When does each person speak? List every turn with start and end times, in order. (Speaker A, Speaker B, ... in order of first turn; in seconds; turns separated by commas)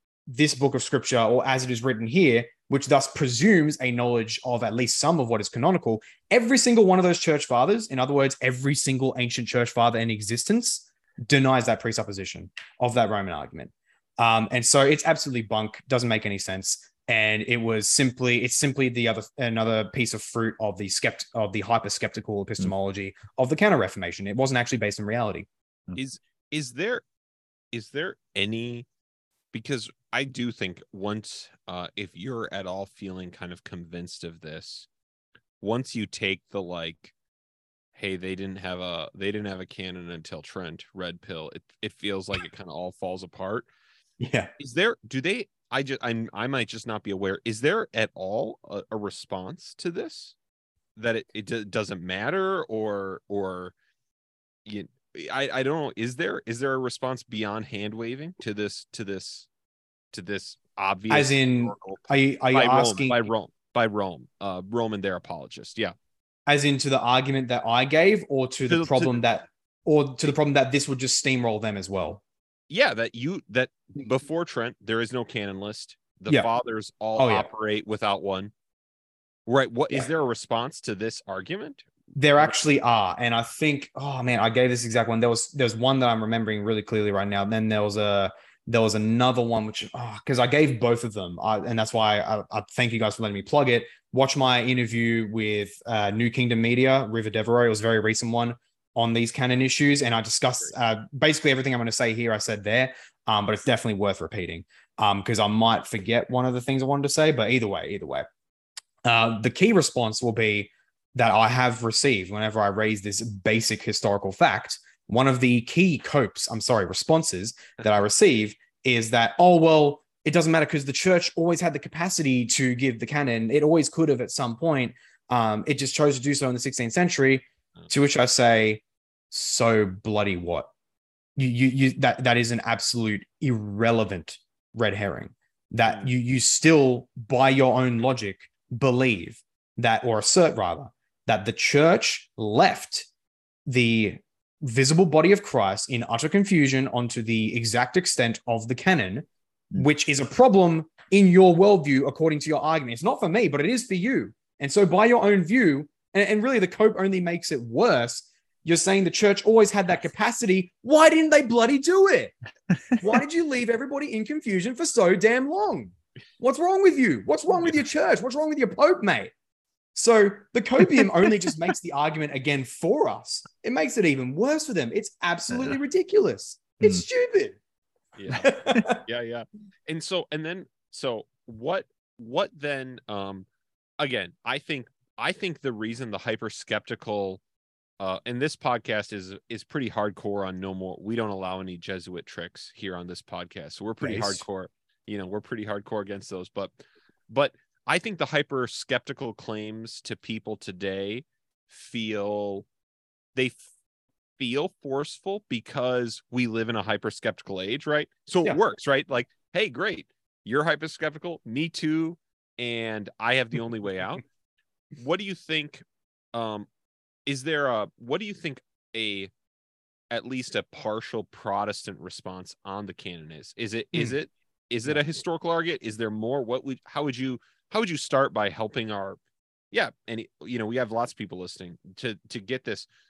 Speaker A: 0.3-25.5, Speaker B: 25.9-27.0, Speaker B: 27.7-28.9, Speaker B: 29.5-34.9, Speaker B: 35.6-37.1, Speaker B: 38.0-43.7, Speaker A: 44.2-44.5, Speaker B: 44.6-50.4, Speaker B: 51.0-53.7, Speaker B: 54.7-59.5, Speaker B: 60.1-65.9, Speaker A: 61.1-63.2, Speaker A: 66.5-72.2, Speaker B: 68.7-69.2, Speaker B: 72.7-78.5, Speaker A: 77.2-77.5, Speaker B: 79.5-81.8, Speaker A: 82.2-108.3, Speaker A: 109.0-130.7, Speaker A: 131.4-143.1, Speaker A: 143.7-162.3, Speaker A: 162.9-169.3, Speaker A: 169.9-177.6, Speaker B: 178.2-183.5, Speaker A: 178.3-179.0, Speaker B: 184.0-187.4, Speaker B: 188.0-196.7, Speaker A: 194.0-194.4, Speaker B: 197.3-202.7, Speaker B: 203.3-203.6, Speaker B: 204.4-214.2, Speaker B: 215.0-215.8, Speaker B: 216.3-216.7, Speaker B: 217.3-219.3, Speaker B: 220.1-229.2, Speaker B: 229.7-232.9